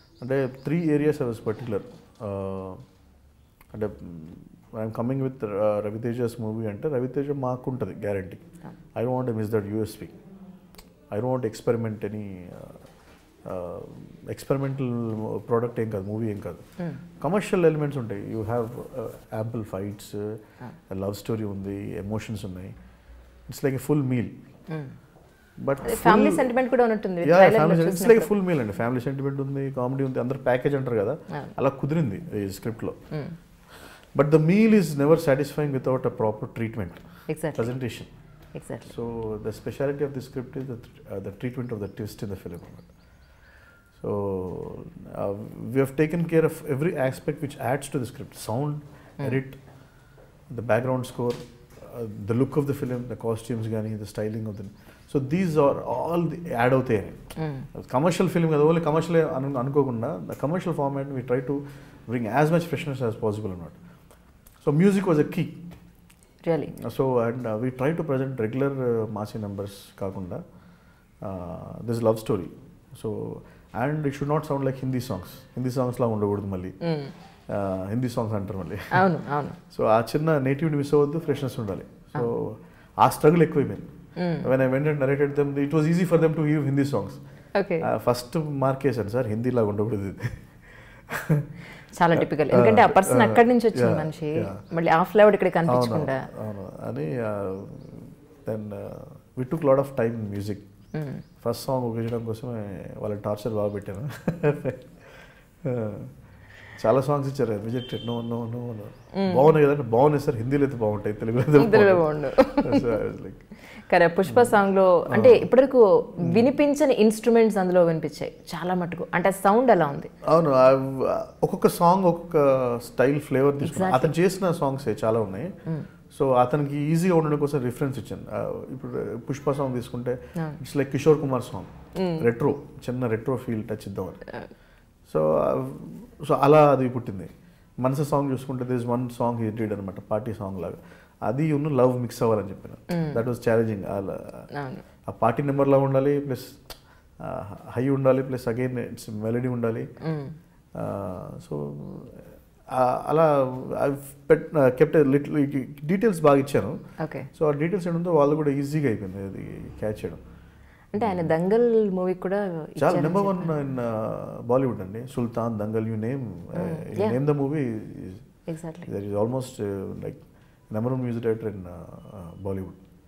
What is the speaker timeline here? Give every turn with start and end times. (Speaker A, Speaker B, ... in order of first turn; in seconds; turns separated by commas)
Speaker A: 0.2-2.8, Speaker A: 3.7-8.4, Speaker A: 8.9-10.1, Speaker A: 11.1-12.8, Speaker A: 13.4-16.6, Speaker A: 17.2-22.7, Speaker A: 23.5-24.3, Speaker B: 24.7-24.9, Speaker A: 25.6-26.5, Speaker B: 25.8-28.3, Speaker A: 27.2-33.0, Speaker B: 33.1-33.4, Speaker A: 33.8-38.1, Speaker B: 37.3-37.7, Speaker B: 38.5-38.9, Speaker A: 38.8-42.9, Speaker A: 44.0-49.6, Speaker A: 50.5-57.2, Speaker B: 57.4-57.7, Speaker A: 57.8-63.8, Speaker A: 64.6-65.6, Speaker B: 66.4-66.7, Speaker A: 66.8-70.4, Speaker A: 71.2-76.7, Speaker B: 76.8-77.1, Speaker A: 77.5-79.2, Speaker B: 78.9-79.6, Speaker A: 79.7-83.9, Speaker B: 84.2-84.5, Speaker A: 84.4-87.2, Speaker B: 87.5-87.9, Speaker A: 87.8-91.5, Speaker B: 91.9-96.2, Speaker A: 92.1-94.6, Speaker A: 95.7-100.7, Speaker B: 100.9-101.2, Speaker A: 101.4-105.0, Speaker A: 105.6-106.1, Speaker A: 106.8-113.4, Speaker B: 109.1-109.5, Speaker B: 111.6-113.0, Speaker B: 113.9-120.1, Speaker A: 114.3-114.6, Speaker A: 115.1-115.5, Speaker A: 116.2-116.5, Speaker A: 120.2-125.5, Speaker B: 123.6-124.2, Speaker A: 126.1-134.2, Speaker B: 132.0-132.3, Speaker A: 135.1-144.5, Speaker B: 142.9-143.2, Speaker B: 144.5-144.8, Speaker A: 145.1-146.7, Speaker A: 147.2-149.9, Speaker B: 150.0-150.3, Speaker A: 150.7-156.8, Speaker B: 157.0-157.3, Speaker A: 157.3-160.2, Speaker B: 160.9-163.5, Speaker A: 160.9-161.3, Speaker A: 162.8-168.2, Speaker B: 166.6-167.2, Speaker B: 168.5-168.9, Speaker A: 168.9-172.8